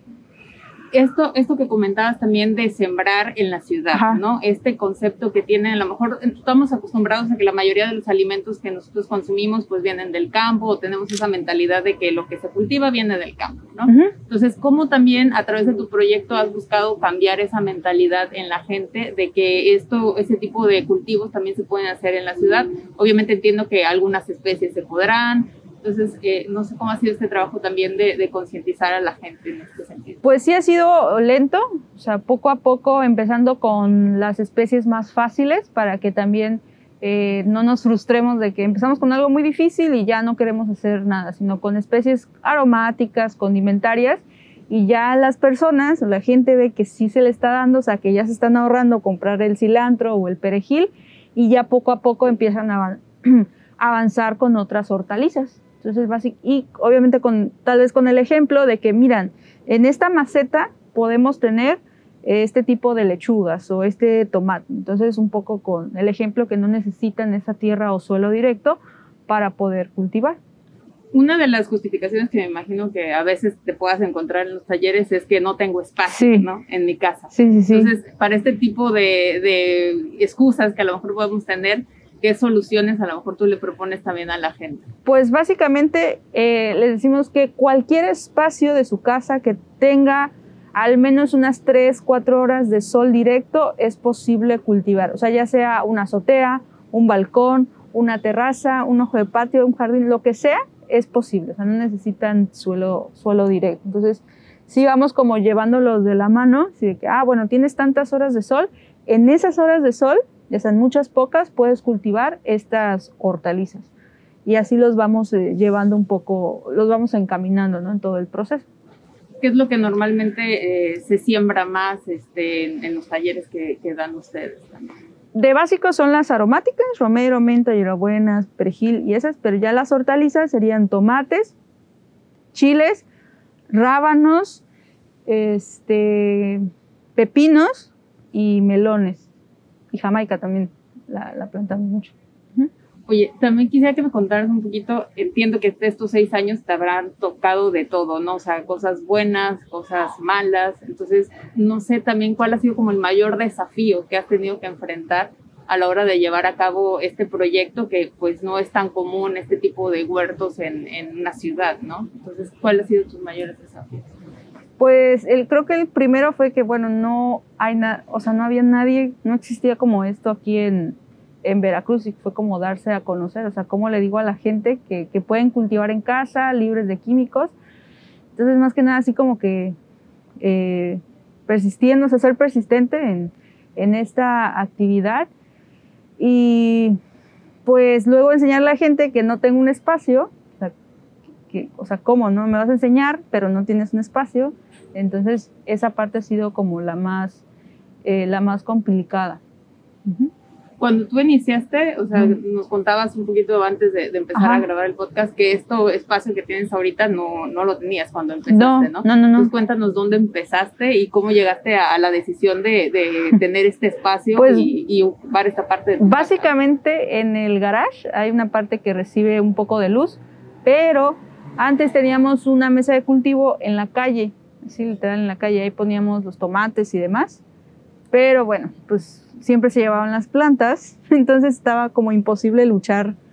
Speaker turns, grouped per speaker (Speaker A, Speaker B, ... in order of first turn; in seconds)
Speaker A: 0.9-30.2, 71.1-84.9, 119.4-124.9, 143.1-164.1, 200.8-216.5
Speaker B: 3.9-4.2, 13.9-14.1, 30.2-70.4, 76.1-76.5, 77.3-77.9, 85.1-113.9, 114.5-118.7, 125.3-131.5, 132.5-133.1, 133.7-134.6, 135.3-139.3, 139.9-142.7, 164.8-177.5, 178.4-179.8, 180.4-185.3, 186.2-187.0, 187.7-190.7, 191.5-197.4, 198.0-199.4, 200.1-200.3, 204.4-204.7, 208.5-209.5, 214.4-214.7, 216.0-227.4, 228.1-233.2